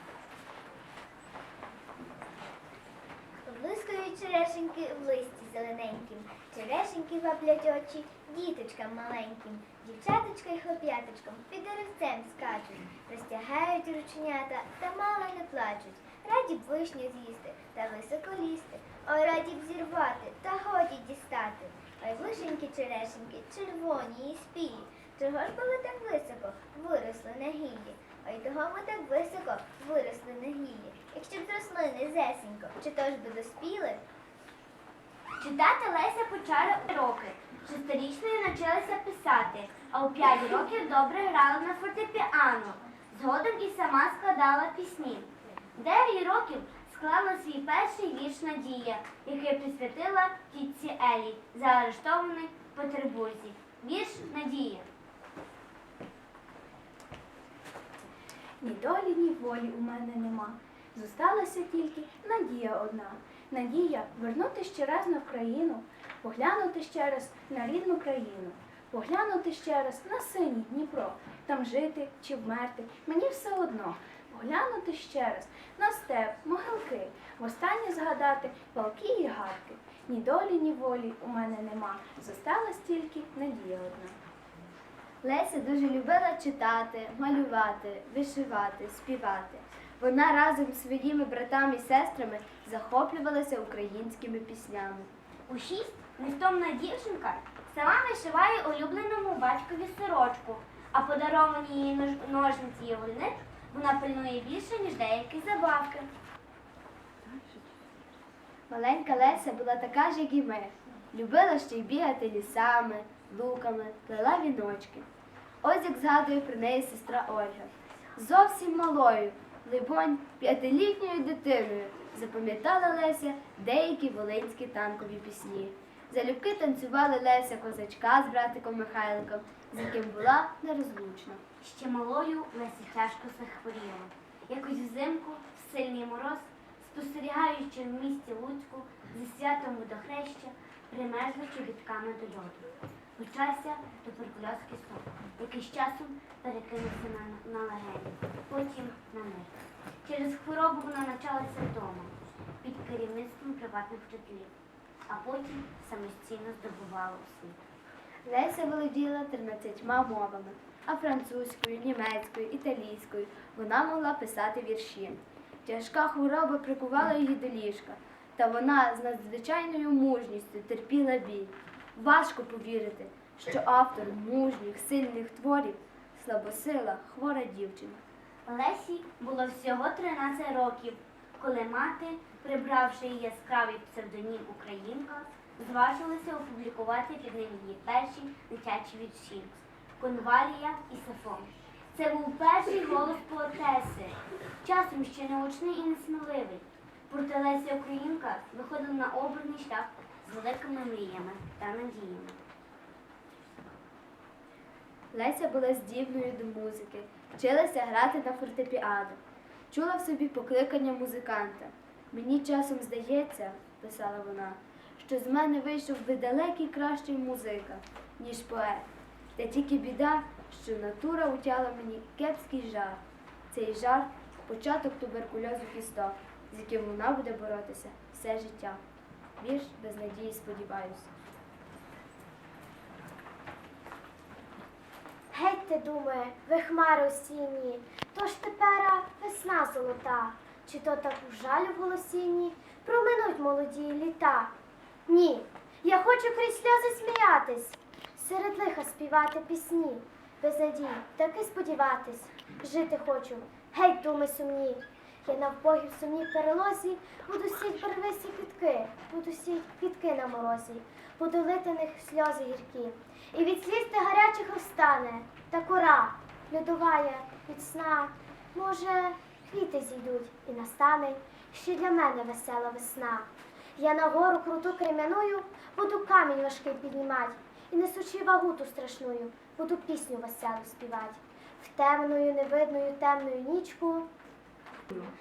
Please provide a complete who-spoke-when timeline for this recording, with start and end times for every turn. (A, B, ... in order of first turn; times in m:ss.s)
0:03.4-0:34.0 A
0:35.4-0:54.8 B
0:58.6-1:24.2 C
1:25.2-1:35.1 D
1:35.5-1:46.1 B
1:48.7-1:55.1 D
1:55.6-2:11.4 D
2:11.6-2:22.6 B
2:23.2-2:29.5 B
2:30.0-2:34.5 B
2:35.1-2:37.6 B
2:38.2-2:58.0 D
2:58.4-3:22.4 B
3:25.1-3:48.8 D
3:49.4-3:51.1 D
3:55.3-4:04.5 E
4:05.1-4:44.1 E